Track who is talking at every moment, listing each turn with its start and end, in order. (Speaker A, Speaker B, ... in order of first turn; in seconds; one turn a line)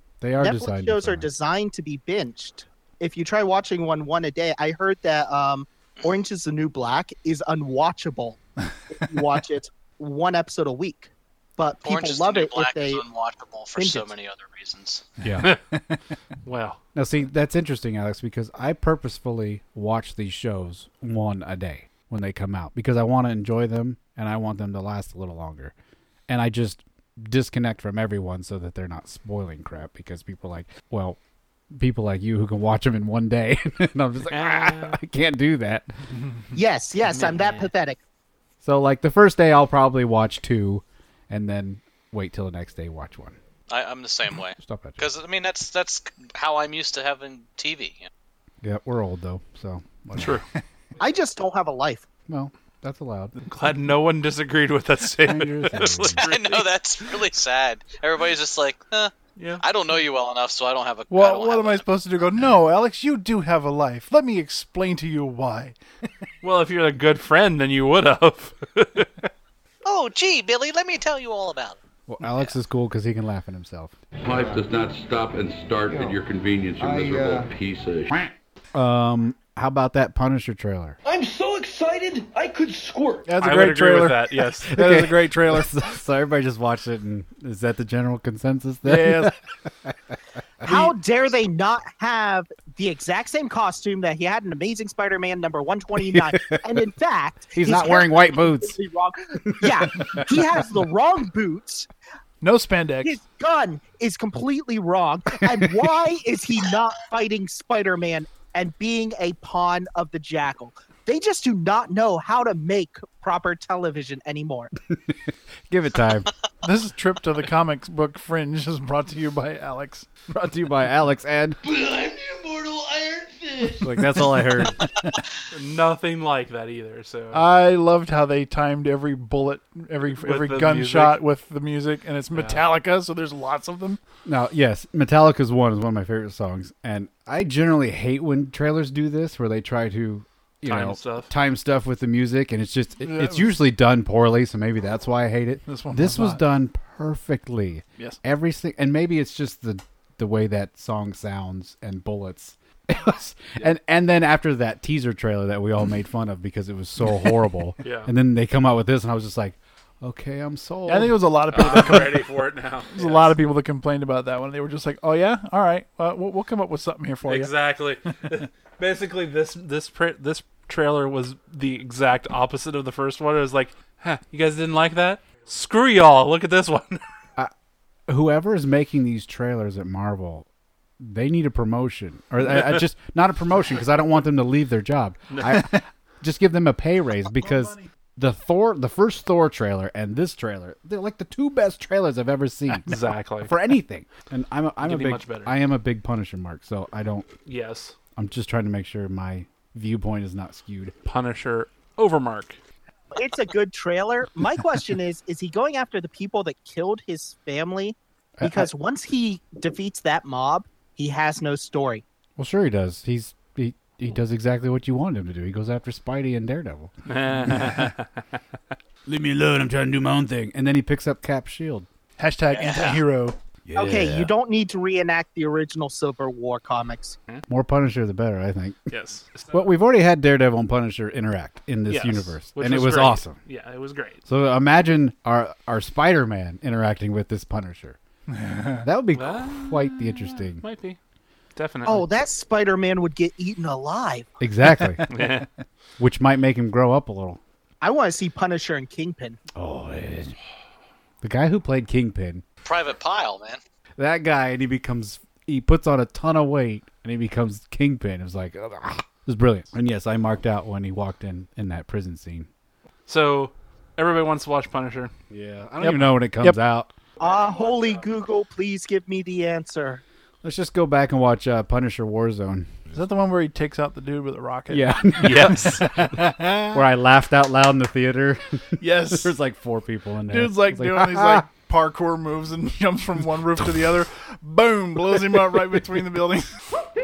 Speaker A: 0.2-1.3
Speaker B: 0.4-13.0
Speaker C: 11.8-15.1
Speaker B: 13.8-14.1
Speaker A: 15.2-15.5
Speaker D: 15.4-15.8
Speaker E: 16.4-16.8
Speaker A: 16.9-25.7
Speaker A: 26.3-31.2
Speaker A: 31.7-35.9
Speaker E: 34.3-35.0
Speaker B: 36.5-38.0
Speaker A: 38.6-43.4
Speaker C: 43.7-48.1
Speaker A: 44.6-45.0
Speaker A: 48.6-50.4
Speaker E: 50.1-50.5
Speaker B: 51.0-52.0
Speaker A: 52.3-53.3
Speaker E: 53.5-57.2
Speaker A: 55.2-56.2
Speaker C: 56.2-61.9
Speaker E: 59.4-59.6
Speaker D: 61.1-65.8
Speaker E: 66.4-69.2
Speaker C: 69.8-71.8
Speaker A: 72.1-74.0
Speaker F: 74.2-78.3
Speaker A: 76.8-77.5
Speaker A: 78.7-81.0
Speaker G: 81.0-83.3
Speaker D: 83.3-85.7
Speaker E: 83.4-84.7
Speaker A: 84.7-89.3
Speaker D: 88.8-89.3
Speaker B: 90.6-101.9
Speaker A: 96.1-96.6
Speaker A: 97.5-98.8
Speaker A: 99.5-100.4
Speaker D: 102.4-103.2
Speaker B: 103.0-114.7
Speaker A: 114.9-116.3
Speaker D: 116.6-120.1
Speaker A: 120.3-121.6
Speaker G: 121.6-124.2
Speaker A: 123.8-124.9
Speaker E: 125.5-127.5
Speaker D: 127.3-134.0
Speaker E: 130.2-131.2
Speaker E: 132.3-132.6
Speaker A: 134.3-161.8
Speaker E: 140.7-141.3
Speaker D: 143.0-143.5
Speaker D: 145.7-146.4
Speaker E: 157.8-158.1
Speaker D: 160.9-162.3
Speaker E: 161.5-163.4
Speaker D: 162.9-167.5
Speaker E: 167.3-177.0
Speaker A: 178.1-180.5
Speaker A: 181.0-197.3
Speaker E: 185.3-185.6
Speaker D: 185.5-185.8
Speaker D: 187.4-187.9
Speaker E: 192.9-193.5
Speaker E: 194.8-195.6
Speaker E: 197.5-197.9
Speaker A: 198.2-200.9
Speaker E: 201.1-202.6
Speaker B: 203.1-212.0
Speaker A: 208.4-208.7
Speaker A: 212.4-216.9
Speaker E: 217.1-218.4
Speaker A: 219.1-221.9
Speaker D: 222.2-223.4
Speaker C: 222.5-223.0
Speaker A: 223.7-224.3
Speaker B: 223.8-227.2
Speaker A: 227.5-228.9
Speaker E: 228.9-229.7
Speaker A: 229.5-233.4
Speaker E: 231.9-234.2
Speaker A: 234.3-238.0
Speaker D: 238.3-238.9
Speaker A: 238.8-240.6
Speaker E: 239.1-241.0
Speaker E: 241.6-242.1
Speaker B: 241.8-244.3
Speaker A: 244.4-245.1
Speaker E: 245.1-245.5
Speaker A: 246.0-247.4
Speaker B: 247.8-249.4
Speaker A: 249.6-250.4
Speaker A: 251.2-252.4
Speaker C: 252.6-253.6
Speaker A: 254.0-262.5
Speaker E: 263.1-265.1
Speaker A: 265.3-266.9
Speaker D: 265.8-266.6
Speaker B: 267.2-270.0
Speaker A: 270.4-272.9
Speaker D: 272.9-276.8
Speaker A: 274.7-281.5
Speaker E: 275.2-275.9
Speaker D: 278.8-279.3
Speaker D: 280.3-286.6